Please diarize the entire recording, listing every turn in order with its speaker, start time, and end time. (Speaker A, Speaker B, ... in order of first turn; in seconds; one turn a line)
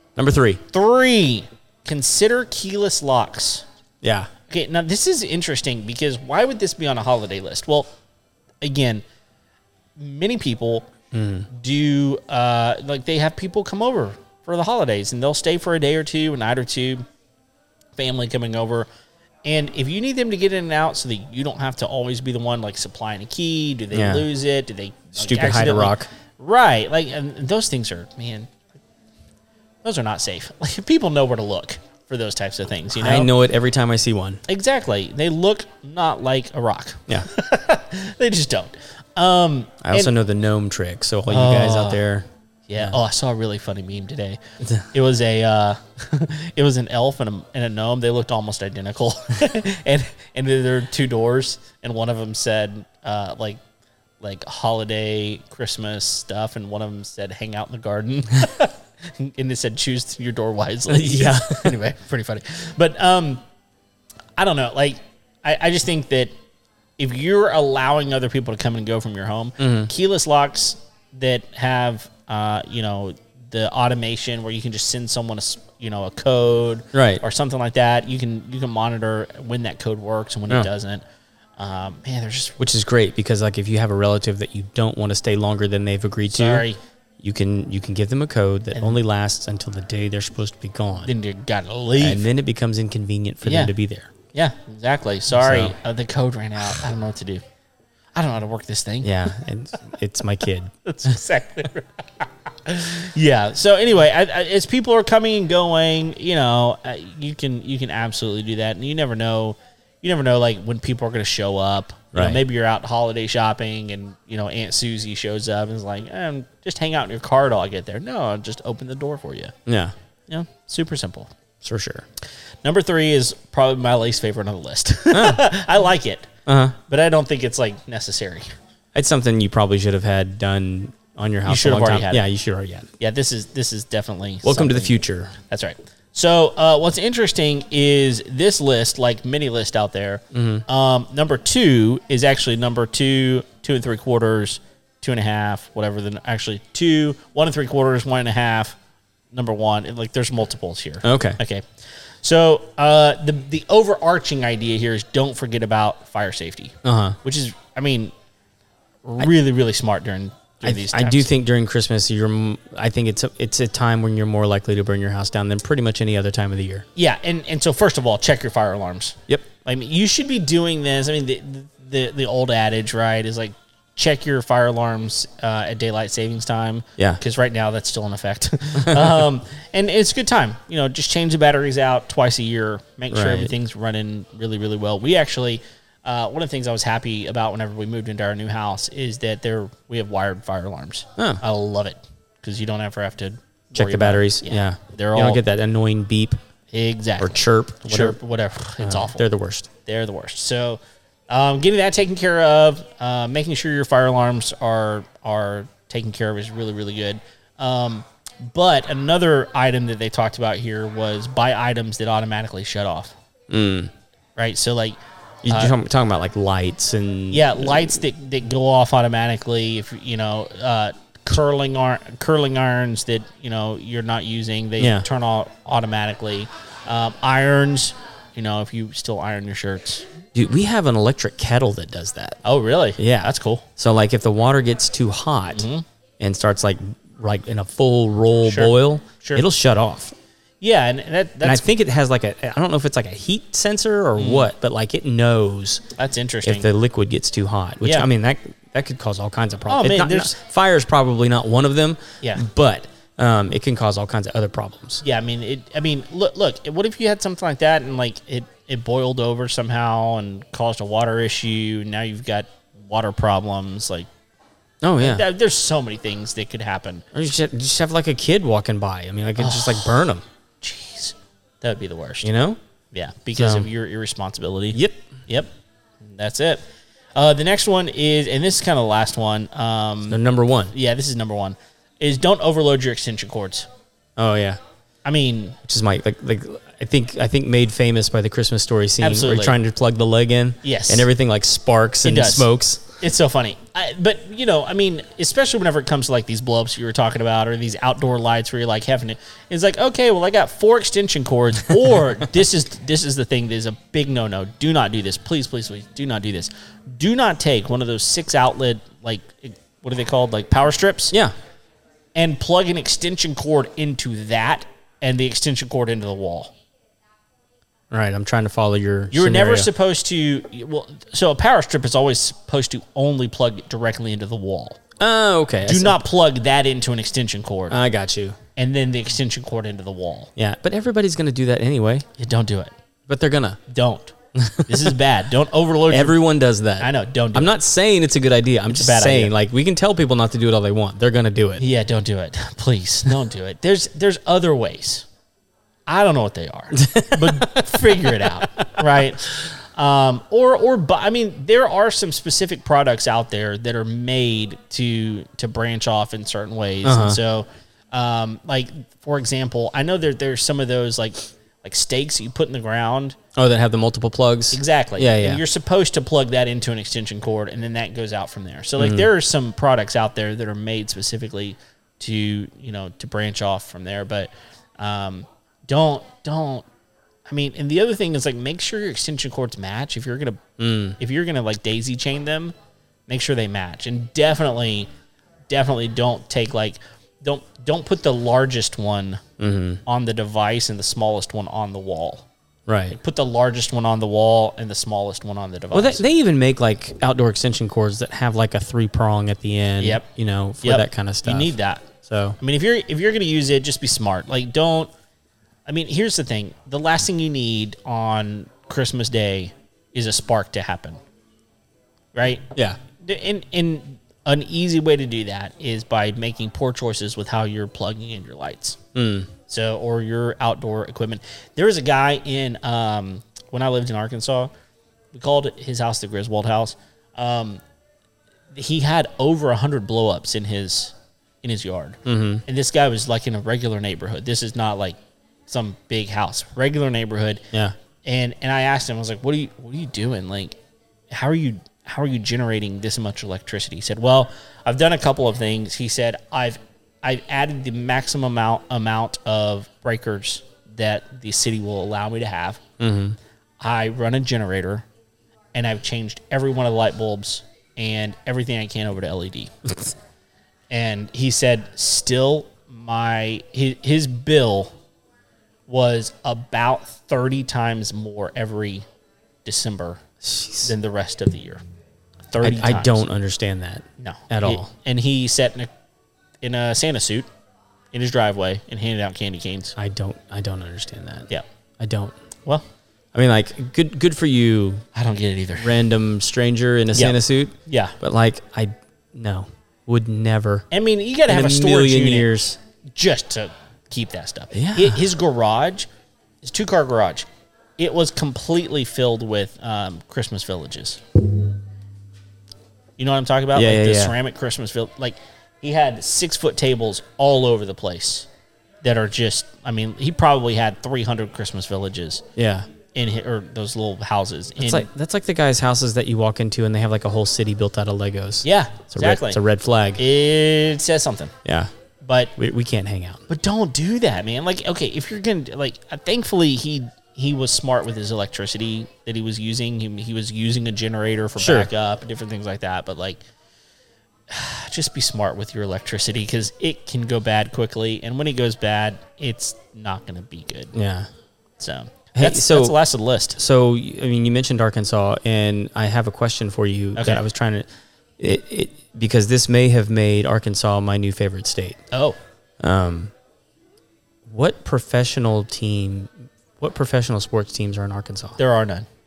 Speaker A: 0.1-0.6
Speaker B: 0.7-3.6
Speaker A: 4.0-4.3
Speaker B: 4.5-7.9
Speaker B: 8.6-9.0
Speaker B: 10.0-10.9
Speaker A: 11.1-11.5
Speaker B: 11.5-17.0
Speaker B: 17.9-18.9
Speaker B: 19.4-28.5
Speaker A: 23.9-24.3
Speaker A: 25.1-26.1
Speaker B: 29.8-33.3
Speaker A: 33.0-34.4
Speaker B: 34.5-40.1
Speaker A: 39.8-42.3
Speaker B: 41.3-42.0
Speaker B: 42.7-44.4
Speaker B: 44.9-53.6
Speaker B: 54.2-63.4
Speaker A: 60.9-61.8
Speaker B: 64.4-66.3
Speaker B: 67.0-81.0
Speaker A: 69.6-69.9
Speaker A: 76.9-77.2
Speaker B: 81.6-82.6
Speaker A: 82.6-86.7
Speaker B: 86.3-86.8
Speaker A: 87.2-91.1
Speaker B: 91.0-92.2
Speaker A: 92.0-94.1
Speaker B: 93.4-93.7
Speaker B: 94.3-97.4
Speaker A: 95.3-95.7
Speaker B: 98.2-99.3
Speaker A: 99.0-100.7
Speaker B: 100.8-119.5
Speaker A: 112.1-112.4
Speaker A: 119.7-119.9
Speaker B: 120.3-121.3
Speaker A: 121.6-122.0
Speaker B: 122.6-128.5
Speaker A: 125.1-125.5
Speaker A: 126.5-126.8
Speaker A: 128.9-132.9
Speaker B: 131.4-132.2
Speaker B: 133.0-148.8
Speaker A: 134.4-135.3
Speaker A: 140.3-140.6
Speaker B: 149.3-158.1
Speaker A: 151.0-151.4
Speaker A: 156.8-157.2
Speaker B: 159.0-161.3
Speaker A: 160.6-166.8
Speaker B: 166.9-195.4
Speaker A: 178.8-179.2
Speaker A: 183.1-183.5
Speaker A: 193.7-196.4
Speaker B: 196.7-199.2
Speaker A: 197.2-198.2
Speaker A: 198.8-199.7
Speaker B: 199.8-213.1
Speaker A: 213.5-213.9
Speaker B: 214.4-215.0
Speaker A: 215.4-218.0
Speaker B: 215.5-215.7
Speaker B: 217.3-230.0
Speaker A: 224.8-225.0
Speaker A: 230.3-232.4
Speaker B: 232.4-233.7
Speaker A: 233.0-235.7
Speaker B: 235.5-235.8
Speaker A: 236.2-240.1
Speaker B: 238.4-239.4
Speaker B: 240.6-241.6
Speaker A: 241.4-245.8
Speaker B: 244.2-244.5
Speaker B: 246.0-246.7
Speaker A: 246.4-255.0
Speaker B: 247.8-248.1
Speaker B: 249.7-250.3
Speaker B: 255.0-264.1
Speaker A: 264.8-265.2
Speaker B: 265.0-267.1
Speaker A: 267.1-270.2
Speaker B: 269.4-269.9
Speaker B: 270.6-272.3
Speaker A: 272.2-272.6
Speaker B: 272.9-275.5
Speaker A: 273.3-273.7
Speaker A: 274.7-275.0
Speaker B: 276.0-276.6
Speaker B: 277.1-280.2
Speaker A: 280.1-280.7
Speaker B: 280.7-283.7
Speaker A: 284.2-284.6
Speaker B: 285.0-285.6
Speaker A: 285.6-292.8
Speaker B: 289.0-289.6
Speaker B: 290.6-291.1
Speaker B: 292.0-311.1
Speaker B: 312.1-316.5
Speaker A: 317.9-319.7
Speaker B: 319.1-324.8
Speaker A: 325.0-326.0
Speaker B: 325.6-327.8
Speaker A: 327.7-328.4
Speaker B: 328.6-330.3
Speaker A: 330.4-332.1
Speaker B: 332.2-332.7
Speaker A: 333.1-333.6
Speaker B: 333.7-334.1
Speaker A: 334.3-335.0
Speaker B: 334.6-336.2
Speaker A: 335.9-341.6
Speaker B: 336.8-337.5
Speaker B: 338.7-339.3
Speaker B: 341.6-345.1
Speaker B: 345.9-363.2
Speaker A: 346.8-348.7
Speaker A: 356.8-357.2
Speaker A: 363.4-365.4
Speaker B: 364.5-376.7
Speaker A: 368.8-369.1
Speaker B: 377.3-380.4
Speaker A: 380.6-381.0
Speaker B: 381.0-382.5
Speaker B: 383.1-384.9
Speaker B: 385.5-389.2
Speaker A: 389.4-389.8
Speaker B: 389.9-392.2
Speaker A: 392.7-392.9
Speaker B: 392.9-396.0
Speaker A: 395.7-402.4
Speaker B: 400.6-401.9
Speaker B: 402.4-404.9
Speaker B: 405.6-411.0
Speaker B: 412.1-412.5
Speaker B: 413.0-418.8
Speaker A: 418.9-419.3
Speaker B: 419.5-424.5
Speaker B: 425.1-427.6
Speaker B: 428.5-437.4
Speaker A: 432.1-432.4
Speaker B: 438.0-440.6
Speaker B: 441.1-452.6
Speaker A: 452.8-453.2
Speaker B: 453.6-454.8
Speaker B: 455.5-459.9
Speaker B: 460.7-464.7
Speaker B: 465.7-468.8
Speaker B: 469.4-470.0
Speaker A: 470.2-470.7
Speaker B: 470.6-471.6
Speaker B: 472.3-473.0
Speaker A: 472.4-474.7
Speaker B: 474.0-475.7
Speaker B: 476.4-477.2
Speaker B: 477.9-479.8
Speaker A: 479.8-481.3
Speaker A: 481.8-482.1
Speaker A: 483.1-484.8
Speaker B: 484.9-485.8
Speaker A: 485.6-490.7
Speaker B: 486.9-487.9
Speaker B: 490.7-492.3
Speaker A: 491.3-492.6
Speaker B: 492.9-495.9
Speaker A: 494.5-495.0
Speaker B: 496.4-497.2
Speaker B: 497.8-501.0
Speaker B: 503.0-508.3
Speaker A: 503.5-504.1
Speaker B: 508.8-512.2
Speaker A: 512.4-512.7
Speaker B: 512.9-514.9
Speaker A: 514.6-520.0
Speaker B: 518.4-519.4
Speaker B: 520.0-521.3
Speaker A: 521.4-521.7
Speaker B: 522.0-522.3
Speaker A: 522.4-523.2
Speaker B: 523.3-533.2
Speaker A: 531.4-531.7
Speaker B: 534.3-540.7
Speaker A: 540.7-541.1
Speaker B: 541.6-543.4
Speaker A: 542.1-542.8
Speaker A: 543.3-547.6
Speaker B: 547.0-547.2
Speaker A: 548.2-551.8
Speaker B: 551.9-552.2
Speaker A: 552.6-553.1
Speaker A: 554.3-558.4
Speaker B: 558.4-558.9